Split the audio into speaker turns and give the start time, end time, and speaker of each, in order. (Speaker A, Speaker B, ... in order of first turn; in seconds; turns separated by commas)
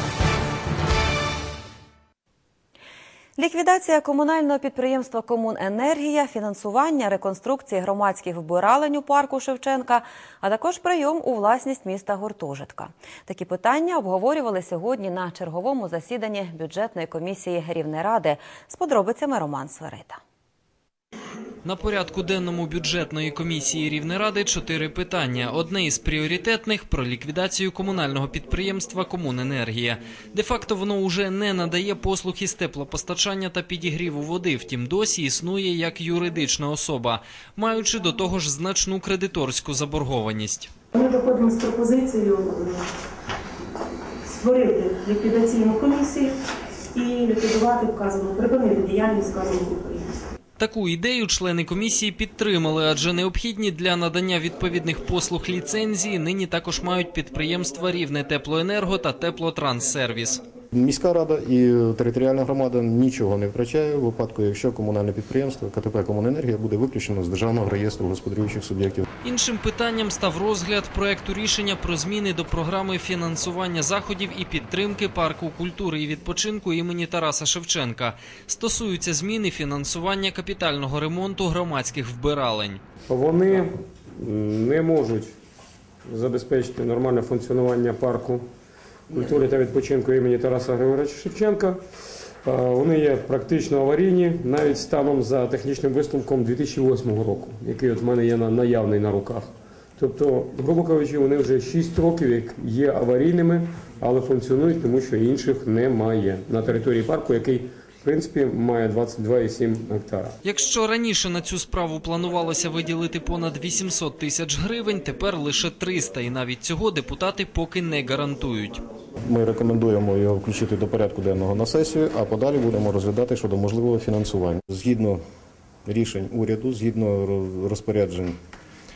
Speaker A: 3.4-20.2, Speaker B: 21.6-40.7, Speaker C: 41.0-42.6, Speaker C: 44.4-46.2, Speaker C: 47.0-49.9, Speaker B: 50.6-60.4, Speaker D: 60.7-69.0, Speaker B: 69.2-82.8, Speaker E: 83.1-85.3, Speaker E: 86.0-88.4, Speaker E: 89.1-91.8, Speaker E: 92.4-110.3, Speaker B: 110.4-118.8, Speaker D: 119.2-125.2, Speaker D: 125.8-128.4